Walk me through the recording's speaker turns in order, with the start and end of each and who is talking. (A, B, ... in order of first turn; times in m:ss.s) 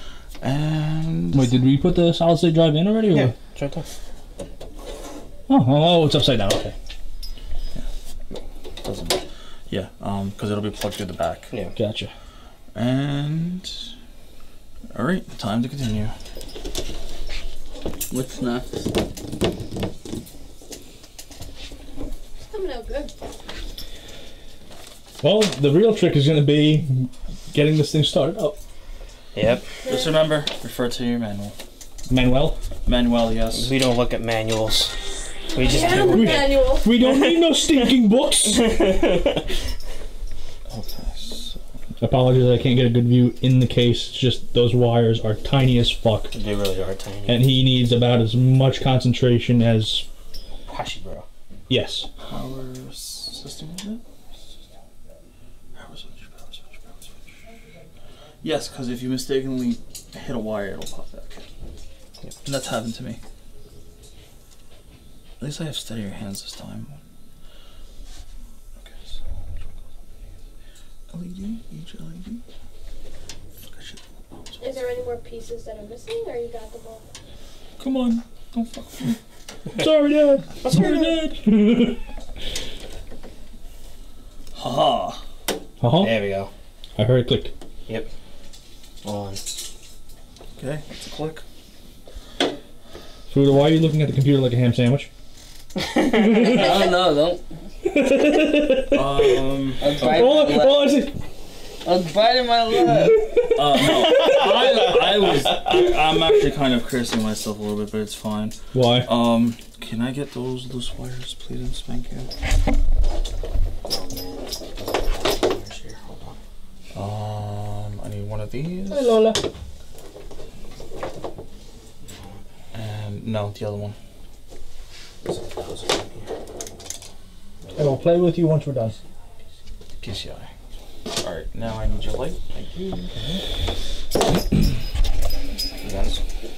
0:00.4-0:01.5 A
0:01.3-0:03.3 B
0:03.1-0:03.9 C
0:05.5-0:06.7 B
0:08.8-0:11.5 A
0:11.8-0:12.1 B
0:12.7-0:13.8 A
0:14.9-0:16.1 A
0:18.1-0:18.9 D
0:22.4-0:23.1 E
0:25.2-0:28.6 B
0:29.3-0:29.6 C
0:29.8-0:31.6 A
0:29.8-0:30.3 E
0:32.1-0:32.6 B
0:32.8-0:33.7 A
0:33.5-0:34.9 C
0:35.5-0:36.5 C
0:35.5-0:37.0 E
0:35.8-0:38.8 B
0:37.1-0:37.9 C
0:38.5-0:39.4 C
0:40.7-0:41.6 A
0:42.0-0:46.3 B
0:46.3-0:47.5 C
0:47.3-0:50.0 B
0:50.7-0:51.2 C
0:51.7-0:52.1 B
0:52.3-0:54.0 A
0:55.7-0:57.1 A
0:58.4-1:01.4 A
1:02.4-1:03.2 A
1:05.4-1:06.9 A
1:08.8-1:09.2 A
1:11.1-1:12.4 A
1:13.6-1:14.8 A
1:14.6-1:17.0 E
1:17.8-1:19.2 A
1:19.7-1:22.0 B
1:20.6-1:21.1 C
1:20.6-1:21.3 A
1:24.5-1:25.2 A
1:25.8-1:26.2 B
1:26.0-1:26.5 C
1:27.0-1:27.5 B
1:29.0-1:29.4 C
1:30.6-1:31.4 A
1:33.3-1:35.1 B
1:35.8-1:36.6 C
1:36.0-1:36.9 B
1:36.4-1:37.4 D
1:37.8-1:39.4 B
1:38.9-1:40.2 A
1:39.8-1:41.0 D
1:39.9-1:41.1 B
1:41.8-1:43.2 D
1:42.9-1:44.4 B
1:43.5-1:52.3 A
1:48.7-1:49.1 B
1:53.8-1:56.4 C
1:56.9-1:59.2 A
1:58.9-1:59.4 B
2:02.0-2:02.4 C
2:02.7-2:04.0 A
2:05.2-2:06.3 C
2:07.6-2:07.9 C
2:07.7-2:08.9 B
2:10.0-2:10.5 A
2:11.2-2:13.1 A
2:13.1-2:13.4 C
2:15.8-2:16.2 C